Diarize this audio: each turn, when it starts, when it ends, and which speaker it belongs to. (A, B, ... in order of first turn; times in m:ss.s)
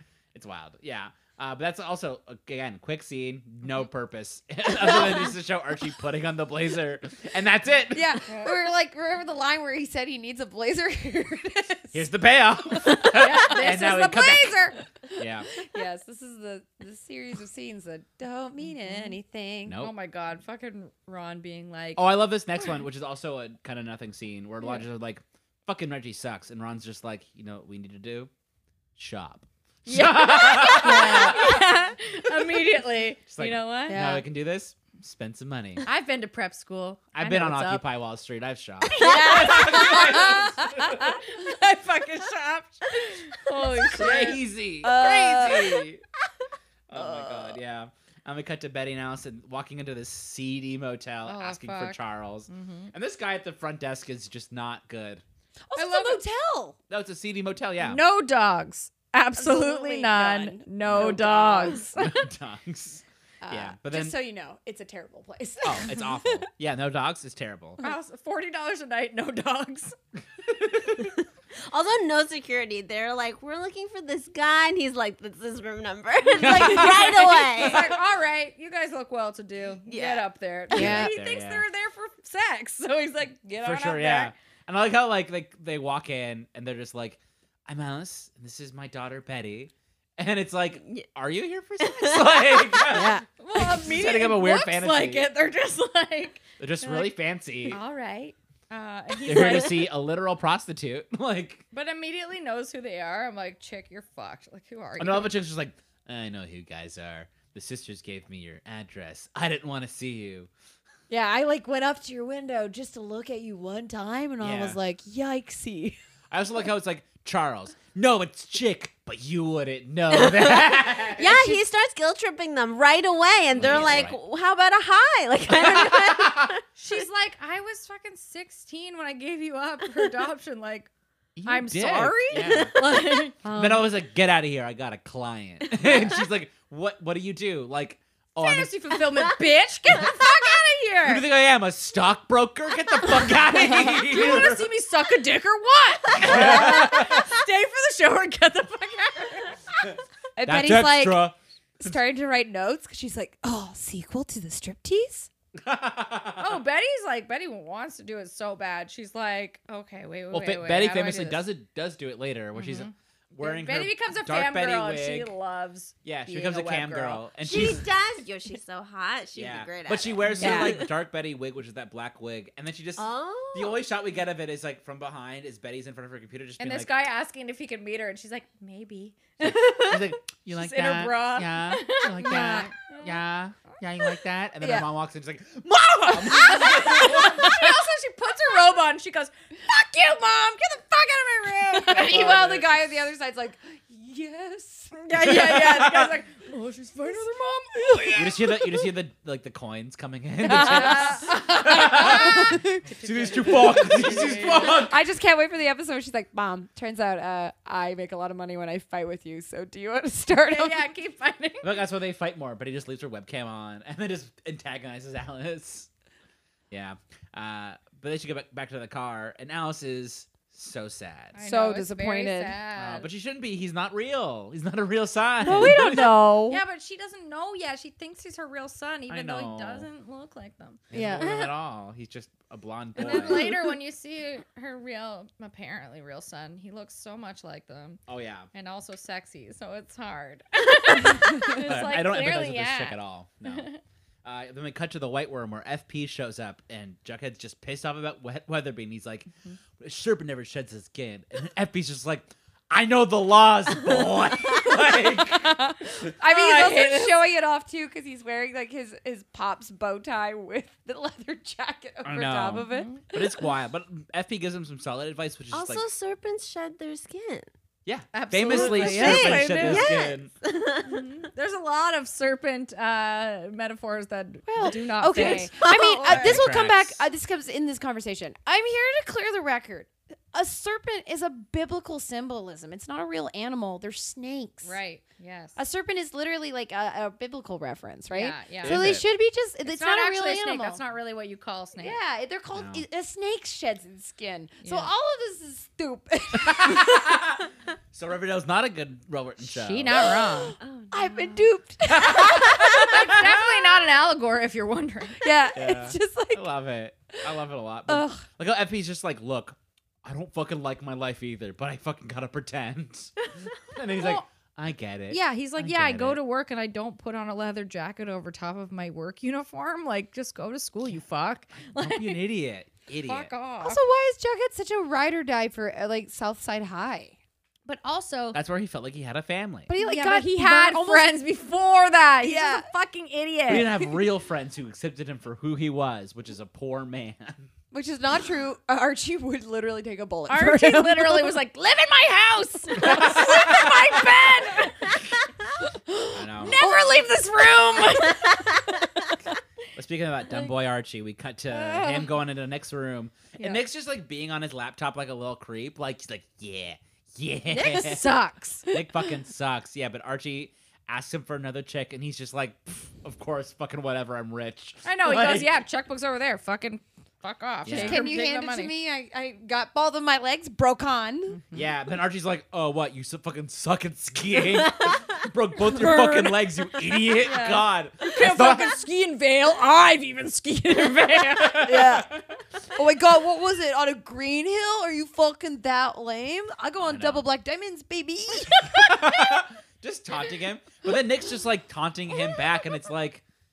0:00.3-0:08.2 A
0:07.9-0:12.0 B
0:11.9-0:14.6 A
0:12.7-0:19.8 B
0:13.1-0:14.0 C
0:15.2-0:15.5 A
0:18.8-0:19.2 C
0:19.6-0:19.9 A
0:19.8-0:22.0 C
0:22.0-0:28.3 A
0:29.0-0:31.6 A
0:29.8-0:34.0 C
0:30.6-0:31.6 B
0:33.3-0:35.8 A
0:33.9-0:34.2 B
0:35.8-0:37.9 C
0:37.1-0:41.2 A
0:38.9-0:44.4 C
0:39.0-0:40.4 B
0:43.9-0:46.0 A
0:44.8-0:45.8 B
0:46.9-0:55.2 A
0:46.9-0:47.6 B
0:51.2-0:52.9 C
0:55.7-0:56.8 B
0:55.7-0:56.2 C
0:56.9-0:58.0 A
0:57.8-1:02.3 C
0:59.4-1:01.8 B
1:00.8-1:01.2 A
1:02.0-1:04.2 A
1:03.4-1:06.2 B
1:05.6-1:07.8 A
1:07.8-1:09.9 C
1:10.5-1:11.1 A
1:11.6-1:17.9 D
1:16.4-1:17.9 A
1:16.4-1:24.3 C
1:19.8-1:20.3 D
1:20.7-1:21.1 B
1:20.7-1:21.6 A
1:23.6-1:35.3 A
1:31.8-1:32.8 D
1:32.9-1:33.2 B
1:33.4-1:37.1 C
1:36.6-1:37.8 A
1:37.6-1:39.9 C
1:39.2-1:41.6 A
1:41.7-1:45.4 C
1:45.0-1:50.5 A
1:51.1-1:56.0 B
1:54.4-1:54.8 A
1:56.3-2:01.4 A
2:00.1-2:06.6 D
2:01.2-2:01.6 B
2:03.5-2:04.2 A
2:05.5-2:06.5 A
2:06.8-2:10.9 C
2:11.4-2:12.7 A
2:11.4-2:13.4 C
2:12.3-2:12.9 D
2:13.4-2:13.8 B
2:13.5-2:18.8 A
2:18.4-2:21.2 C
2:21.0-2:24.7 A
2:23.9-2:29.6 C
2:26.2-2:27.3 A
2:30.4-2:35.3 B
2:30.4-2:32.0 A
2:35.6-2:36.6 A
2:36.4-2:41.4 C
2:40.3-2:45.3 A
2:42.6-2:47.2 C
2:46.0-2:47.8 A
2:47.4-2:50.8 D
2:49.3-2:56.9 A
2:50.4-2:50.8 B
2:53.0-2:53.8 D
2:56.6-3:00.0 C
2:59.4-3:07.7 A
3:00.5-3:03.1 C
3:02.2-3:02.7 B
3:04.6-3:04.8 B
3:06.1-3:12.4 C
3:11.9-3:15.0 B
3:11.9-3:12.7 A
3:14.9-3:18.8 C
3:15.1-3:16.1 A
3:18.1-3:25.0 A
3:20.4-3:22.8 B
3:20.4-3:24.8 C
3:24.5-3:30.9 B
3:30.5-3:31.7 C
3:31.6-3:35.9 A
3:36.7-3:41.4 A
3:41.3-3:43.1 C
3:41.4-3:42.6 B
3:42.8-3:46.2 A
3:45.4-3:46.6 B
3:45.6-3:45.9 C
3:46.5-3:50.8 C
3:49.1-3:49.9 A
3:50.9-3:53.6 A
3:50.9-3:51.5 B
3:53.0-3:58.0 C
3:53.0-3:53.3 B
3:58.1-3:58.5 A
3:58.5-4:03.8 C
4:01.5-4:03.7 A
4:04.2-4:15.6 A
4:15.2-4:17.2 C
4:16.2-4:23.2 B
4:22.0-4:25.8 A
4:22.7-4:23.0 C
4:25.5-4:27.5 D
4:27.8-4:30.3 A
4:28.1-4:29.9 C
4:28.4-4:29.4 B
4:28.7-4:31.1 D
4:30.8-4:35.5 C
4:34.5-4:44.8 B
4:35.2-4:36.4 D
4:36.0-4:37.0 A
4:44.6-4:45.6 C
4:45.6-4:50.8 B
4:48.1-4:48.8 C
4:48.6-4:49.0 A
4:49.6-4:52.0 C
4:51.8-4:57.0 B
4:52.5-4:52.8 A
4:54.6-4:54.9 C
4:56.3-5:00.2 A
4:59.4-5:00.6 C
5:00.1-5:03.8 B
5:00.6-5:01.5 D
5:01.9-5:02.9 A
5:02.5-5:05.2 C
5:05.2-5:06.4 B
5:05.5-5:16.2 A
5:07.9-5:08.2 B
5:13.9-5:14.2 C
5:15.1-5:22.3 C
5:21.7-5:23.3 A
5:23.0-5:23.8 C
5:23.6-5:27.1 B
5:27.6-5:28.4 C
5:28.3-5:29.7 A
5:29.7-5:31.1 B
5:29.8-5:34.0 C
5:32.2-5:32.7 B
5:33.5-5:37.5 A
5:37.7-5:41.4 B
5:40.3-5:45.1 C
5:42.8-5:43.6 A
5:45.9-5:48.9 C
5:46.1-5:46.6 A
5:46.4-5:46.9 B
5:49.7-6:05.6 A
5:51.5-5:52.1 C
5:57.5-5:58.8 C
6:04.8-6:08.7 C
6:07.6-6:08.0 A
6:07.7-6:11.4 B
6:11.3-6:11.6 C
6:11.5-6:18.7 A
6:15.8-6:16.3 C
6:17.0-6:21.8 C
6:21.4-6:22.2 A
6:21.6-6:22.2 B
6:22.7-6:28.9 B
6:26.8-6:27.3 A
6:28.6-6:33.2 A